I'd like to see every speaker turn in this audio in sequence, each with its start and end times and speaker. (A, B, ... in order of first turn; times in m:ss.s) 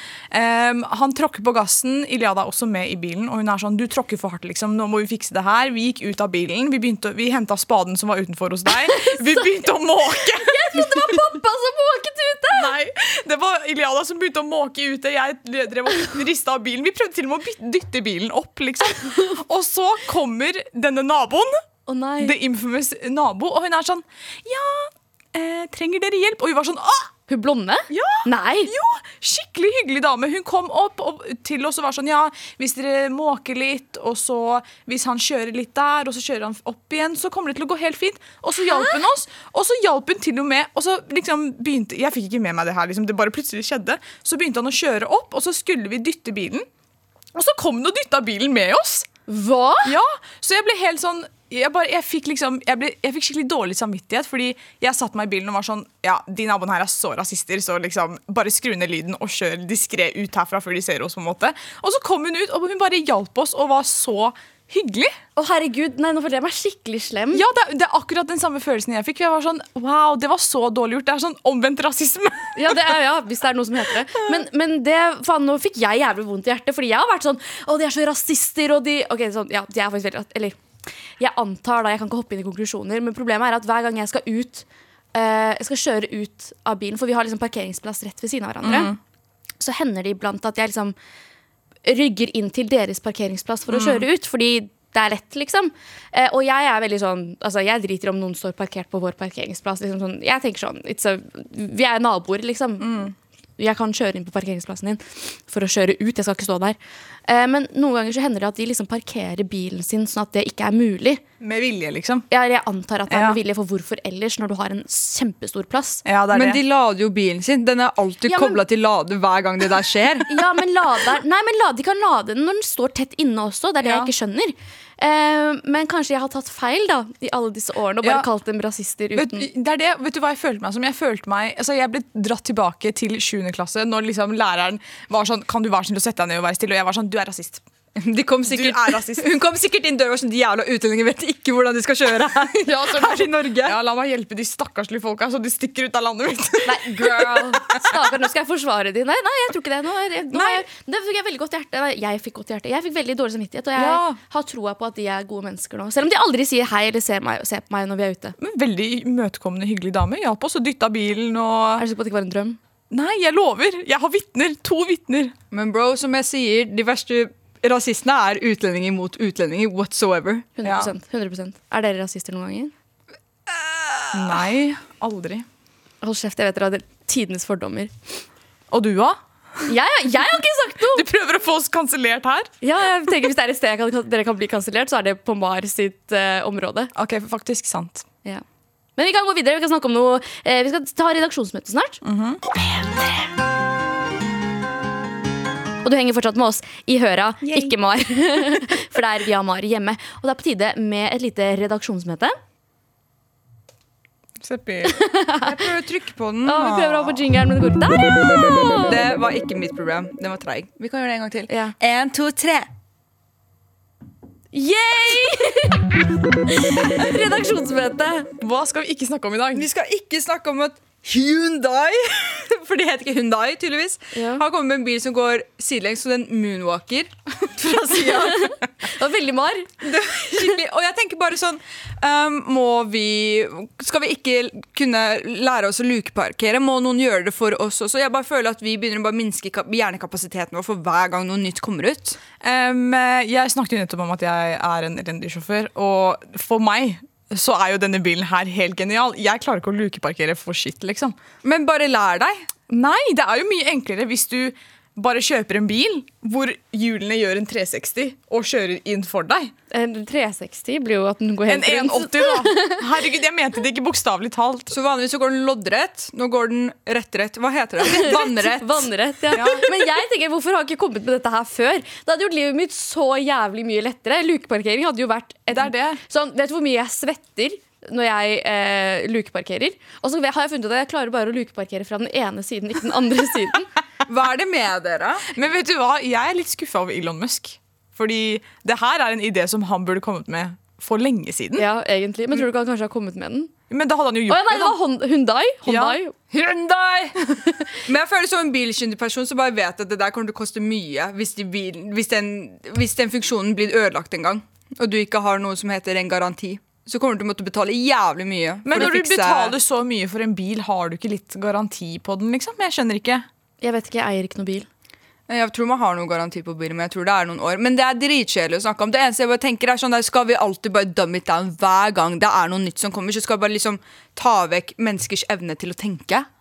0:00.3-0:11.1 A
0:08.9-0:12.7 B
0:12.5-0:21.6 A
0:19.0-0:19.3 B
0:21.8-0:22.4 B
0:22.2-0:27.1 A
0:27.3-0:28.7 B
0:27.9-0:46.7 A
0:38.7-0:39.0 B
0:47.3-0:49.1 A
0:49.3-0:50.0 B
0:49.8-1:05.2 A
1:05.4-1:07.4 B
1:07.3-1:13.0 A
1:12.6-1:20.6 B
1:21.2-1:28.9 B
1:28.6-1:29.0 A
1:29.6-1:30.9 B
1:31.8-1:51.2 B
1:33.7-1:34.0 A
1:42.8-1:43.1 A
1:51.4-1:52.3 A
1:52.3-1:56.0 B
1:53.1-1:53.4 A
1:56.0-1:56.6 A
1:56.3-2:00.4 C
1:58.3-1:58.6 B
2:00.3-2:09.5 B
2:03.8-2:04.1 A
2:09.1-2:17.6 A
2:18.0-2:23.8 C
2:18.5-2:19.3 A
2:22.6-2:28.0 A
2:26.6-2:38.4 B
2:30.3-2:30.6 A
2:33.8-2:34.2 A
2:38.4-2:41.8 A
2:41.8-2:42.6 B
2:42.9-2:45.3 A
2:45.5-2:50.5 C
2:50.6-2:52.7 B
2:50.6-2:50.9 A
2:53.6-2:54.1 C
2:54.1-2:55.4 A
2:56.0-2:57.9 B
2:58.7-2:59.7 A
2:59.7-3:01.1 B
3:00.9-3:02.5 A
3:02.6-3:06.9 B
3:06.9-3:08.0 A
3:09.0-3:12.0 B
3:12.0-3:12.4 A
3:15.8-3:22.4 B
3:17.4-3:17.7 A
3:24.4-3:25.0 A
3:24.8-3:25.6 B
3:25.4-3:27.2 C
3:26.4-3:29.0 B
3:28.9-3:32.7 C
3:31.5-3:31.7 B
3:34.5-3:38.3 B
3:38.4-3:39.7 A
3:39.5-3:48.5 C
3:44.1-3:44.4 B
3:47.9-3:50.5 B
3:49.8-4:02.2 C
4:02.4-4:11.2 A
4:11.4-4:12.5 C
4:12.7-4:19.5 A
4:19.7-4:22.8 B
4:21.5-4:24.7 A
4:24.7-4:28.9 C
4:27.9-4:43.7 B
4:29.3-4:29.7 A
4:35.5-4:36.0 A
4:44.0-4:45.3 C
4:45.3-4:51.6 A
4:51.6-4:53.5 B
4:53.7-4:54.8 A
4:54.3-4:56.1 B
4:55.6-4:56.0 A
4:56.3-4:57.2 C
4:57.8-5:09.5 C
5:08.6-5:13.2 A
5:13.6-5:14.7 B
5:15.3-5:26.3 C